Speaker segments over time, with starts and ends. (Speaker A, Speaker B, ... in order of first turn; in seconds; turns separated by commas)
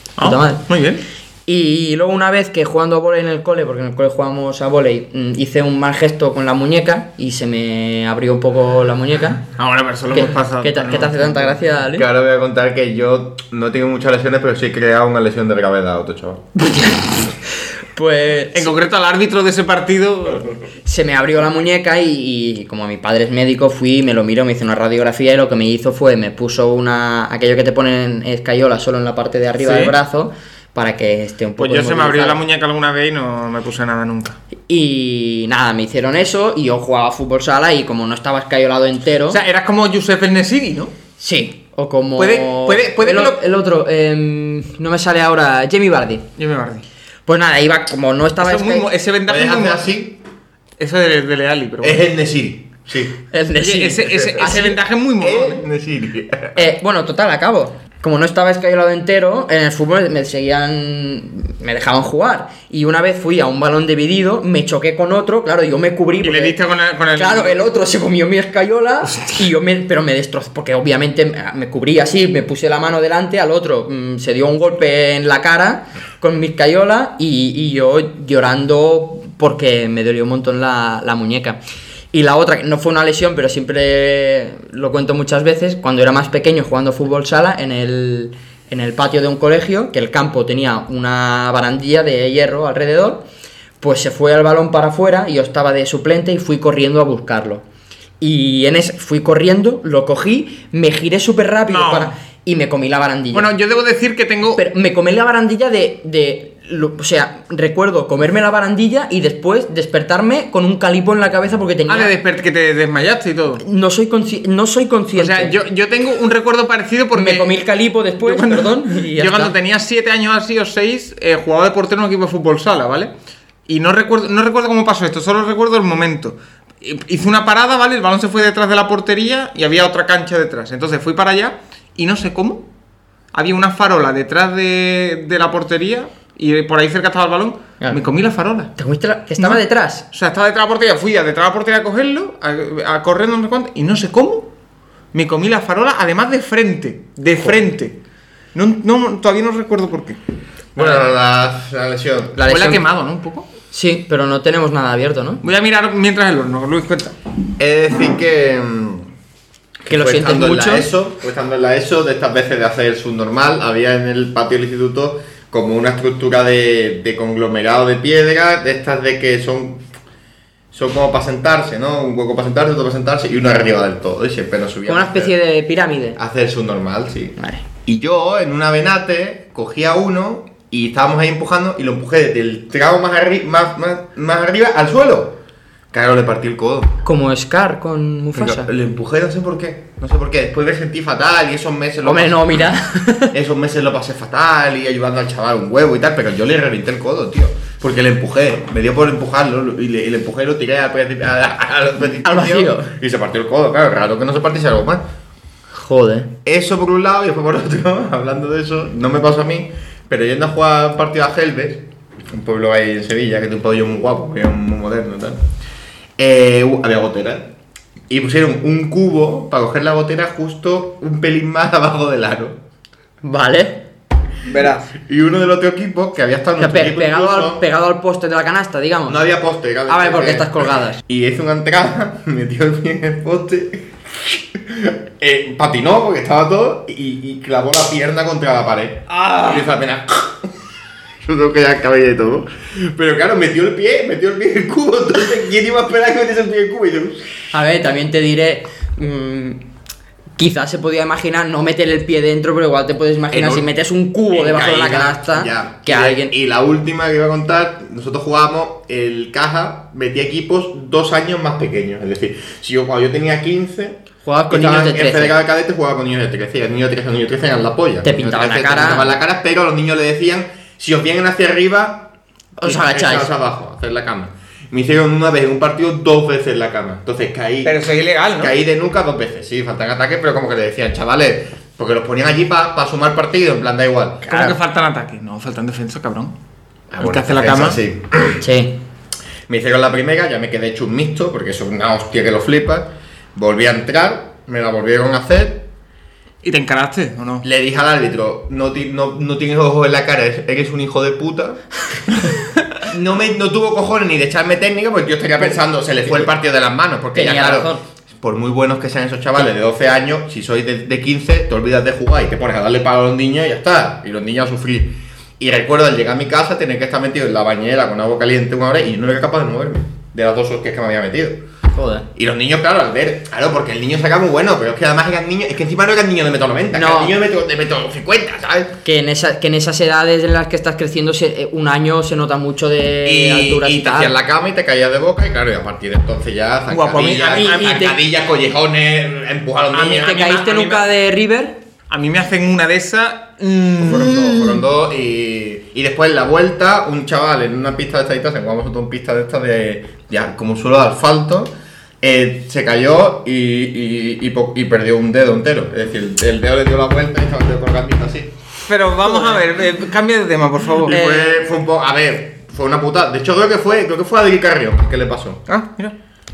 Speaker A: 0.2-1.0, Speaker B: 0.2-0.6, Speaker B: 1.5-9.4, Speaker A: 9.6-11.6, Speaker B: 10.1-12.1, Speaker C: 11.9-16.5, Speaker B: 16.7-17.1, Speaker B: 17.9-18.7, Speaker A: 18.5-20.6, Speaker B: 20.9-32.4, Speaker A: 29.6-29.9, Speaker A: 31.6-34.4, Speaker B: 34.7-39.4, Speaker A: 39.3-40.9, Speaker B: 41.2-46.3, Speaker A: 42.2-43.4, Speaker A: 46.4-46.9, Speaker B: 47.3-48.9, Speaker A: 48.4-49.9, Speaker C: 49.3-50.2, Speaker A: 50.8-52.0, Speaker C: 51.8-53.2, Speaker B: 53.3-54.8, Speaker A: 53.6-55.6, Speaker C: 55.2-56.6, Speaker B: 56.5-66.6, Speaker A: 66.2-67.6, Speaker B: 67.2-81.6, Speaker A: 69.1-69.4, Speaker B: 82.1-93.2, Speaker B: 93.8-97.6, Speaker B: 98.2-103.5, Speaker A: 101.7-102.1, Speaker A: 103.3-104.6, Speaker B: 104.6-112.1, Speaker A: 111.9-113.6, Speaker B: 113.6-115.5, Speaker A: 115.2-117.5, Speaker B: 117.1-119.5, Speaker A: 118.2-123.1, Speaker A: 123.7-132.7, Speaker A: 133.3-138.7, Speaker B: 138.8-140.1, Speaker A: 139.4-144.5, Speaker A: 145.1-148.0, Speaker A: 148.5-150.2, Speaker C: 150.8-152.4, Speaker B: 152.4-152.8, Speaker A: 152.5-153.5, Speaker B: 153.7-155.4, Speaker A: 155.4-157.2, Speaker C: 157.6-159.1, Speaker B: 159.9-160.9, Speaker C: 159.9-169.8, Speaker C: 170.7-175.3, Speaker B: 174.9-176.2, Speaker C: 176.2-185.4, Speaker B: 177.4-177.6, Speaker C: 185.9-186.9, Speaker B: 187.1-188.7, Speaker C: 188.3-192.7, Speaker B: 192.0-193.3, Speaker C: 193.3-205.0, Speaker B: 202.2-202.9, Speaker B: 205.7-206.3, Speaker C: 206.4-215.4, Speaker C: 216.2-217.5, Speaker C: 218.1-222.6, Speaker B: 223.2-223.8, Speaker A: 224.5-224.9, Speaker C: 224.9-227.6, Speaker B: 226.6-229.2, Speaker C: 229.1-240.5, Speaker B: 229.9-231.0, Speaker C: 241.2-247.3, Speaker B: 247.5-249.6, Speaker B: 250.4-256.3, Speaker C: 253.3-253.7, Speaker C: 254.3-272.1, Speaker B: 264.2-265.4, Speaker B: 268.0-269.1, Speaker B: 272.6-273.3, Speaker C: 272.6-277.8, Speaker A: 277.6-278.6, Speaker C: 278.4-284.6, Speaker A: 284.3-286.4, Speaker C: 286.9-288.4, Speaker A: 287.0-287.8, Speaker B: 288.4-288.8, Speaker C: 289.5-295.7, Speaker A: 296.4-297.4, Speaker C: 297.4-301.6, Speaker C: 302.8-321.4, Speaker B: 307.1-307.8, Speaker B: 321.7-322.1, Speaker C: 322.1-328.8, Speaker B: 326.7-327.1, Speaker B: 328.8-334.1, Speaker C: 333.0-340.3, Speaker A: 336.7-337.9, Speaker B: 337.3-338.0, Speaker A: 339.7-340.9, Speaker B: 339.9-341.6, Speaker A: 341.9-344.5, Speaker C: 343.8-358.3, Speaker A: 358.6-361.0, Speaker B: 359.0-359.5, Speaker C: 360.9-365.4, Speaker B: 360.9-361.4, Speaker A: 365.5-365.9